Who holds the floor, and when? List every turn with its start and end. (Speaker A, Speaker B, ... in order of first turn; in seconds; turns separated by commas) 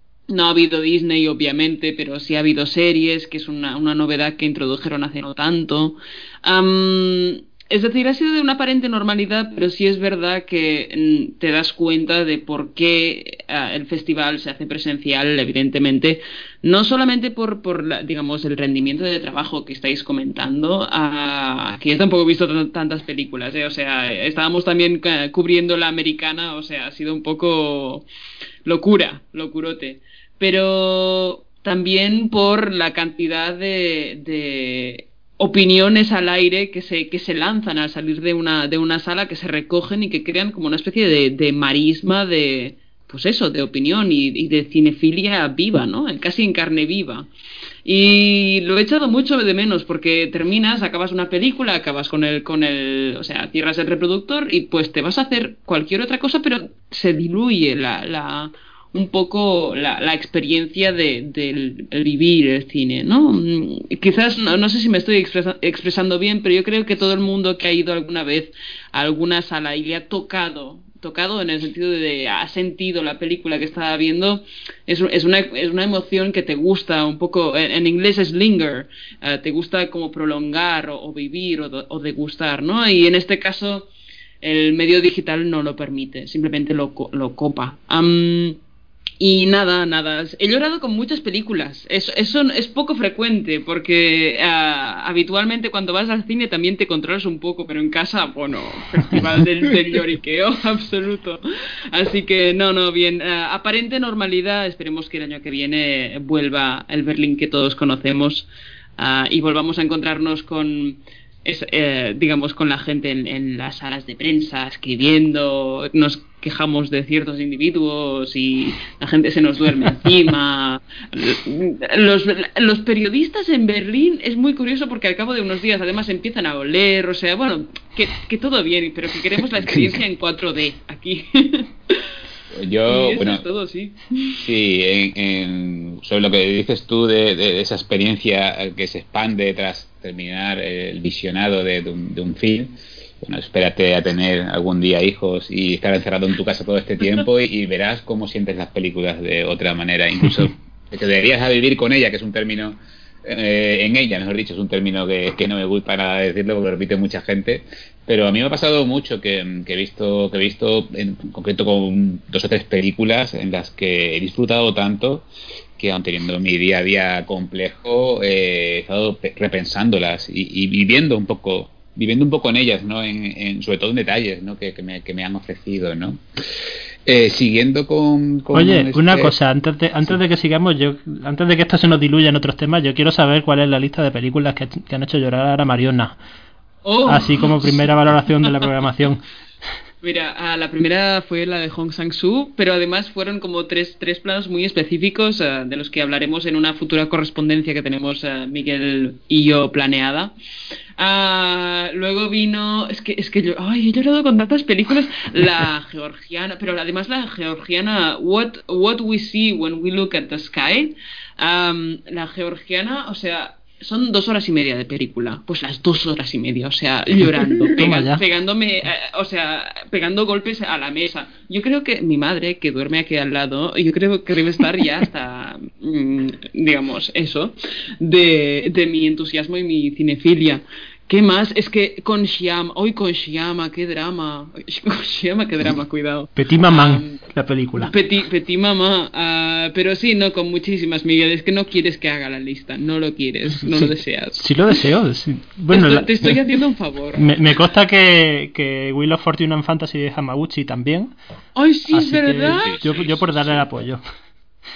Speaker A: 0.3-28.1, Speaker A: 28.7-47.3, Speaker A: 47.9-83.9, Speaker A: 84.4-88.6, Speaker A: 89.2-108.5, Speaker A: 109.0-132.1, Speaker B: 129.6-130.0, Speaker B: 132.5-133.4, Speaker A: 132.9-134.4, Speaker B: 134.4-165.2, Speaker B: 165.8-176.2, Speaker B: 177.1-179.3, Speaker C: 178.5-186.1, Speaker A: 186.8-187.8, Speaker C: 187.1-189.2, Speaker A: 190.0-200.3, Speaker A: 201.0-237.2, Speaker C: 217.2-218.2, Speaker C: 236.4-237.9, Speaker A: 237.8-244.4, Speaker C: 243.7-246.4, Speaker A: 245.7-247.3, Speaker C: 247.2-251.1, Speaker A: 251.6-252.8, Speaker C: 251.9-254.0, Speaker B: 252.6-253.7